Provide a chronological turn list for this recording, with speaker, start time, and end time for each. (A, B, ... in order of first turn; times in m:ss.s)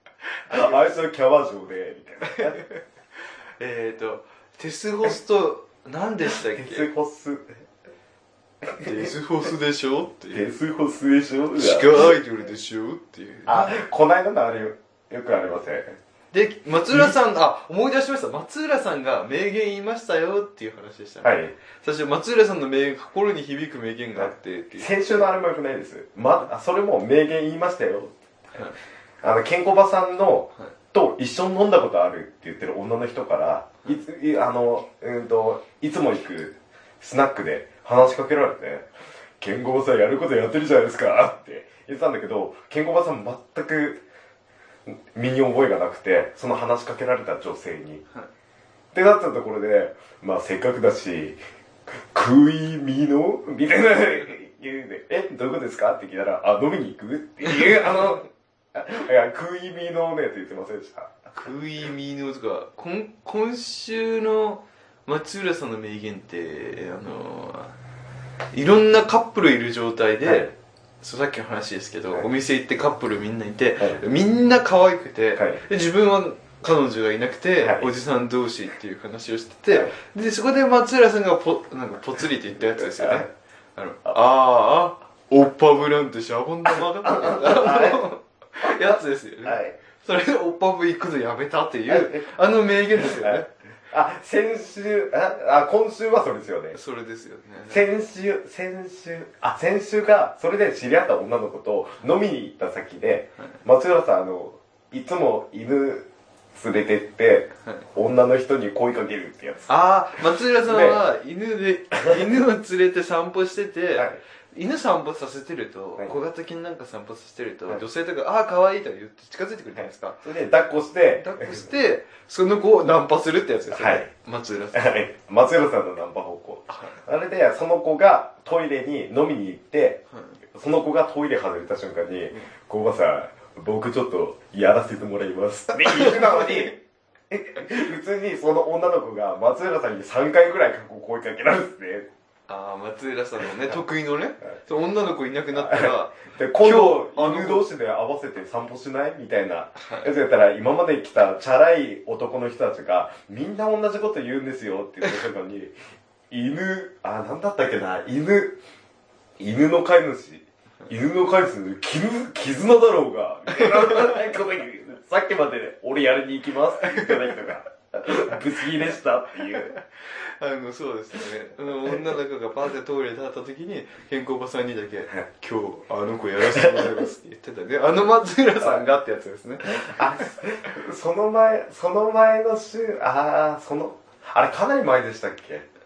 0:00.5-0:02.6 A
0:03.6-0:06.9 B
0:06.5-0:07.5 A
0:08.6-0:09.1 A
0:08.8-0:10.4 B
0:10.3-0:12.1 A
0:11.6-0:13.8 B
0:13.5-0:16.0 A
0:16.3-0:24.9 B
0:16.9-0:17.2 A
0:21.2-0:21.5 A
0:24.2-0:28.1 A
0:29.2-0:44.0 A
0:44.9-0:48.0 A
0:48.9-1:01.1 A
0:57.5-0:58.0 B
1:01.3-1:07.8 B
1:08.5-1:10.5 B
1:10.2-1:10.5 A
1:11.0-1:33.5 B
1:15.4-1:15.6 A
1:17.6-1:17.9 A
1:22.8-1:23.3 A
1:26.9-1:28.1 A
1:28.6-1:29.8 A
1:31.9-1:32.2 A
1:33.0-1:36.8 A
1:36.7-1:37.8 B
1:37.7-1:49.7 A
1:49.7-2:00.2 B
1:50.6-1:51.0 A
1:54.0-1:54.2 A
1:59.8-2:01.7 A
2:01.2-2:05.0 B
2:03.7-2:04.1 A
2:04.7-2:16.8 A
2:06.7-2:07.0 B
2:10.1-2:10.4 B
2:15.8-2:16.7 B
2:17.3-2:22.1 A
2:22.5-2:27.7 B
2:25.5-2:35.7 A
2:29.8-2:30.1 B
2:36.3-2:38.6 A
2:39.4-2:49.8 A
2:43.6-2:44.1 B
2:46.9-2:47.4 B
2:49.7-3:00.3 B
2:56.4-2:57.0 A
2:58.6-2:58.9 A
2:59.7-3:05.6 A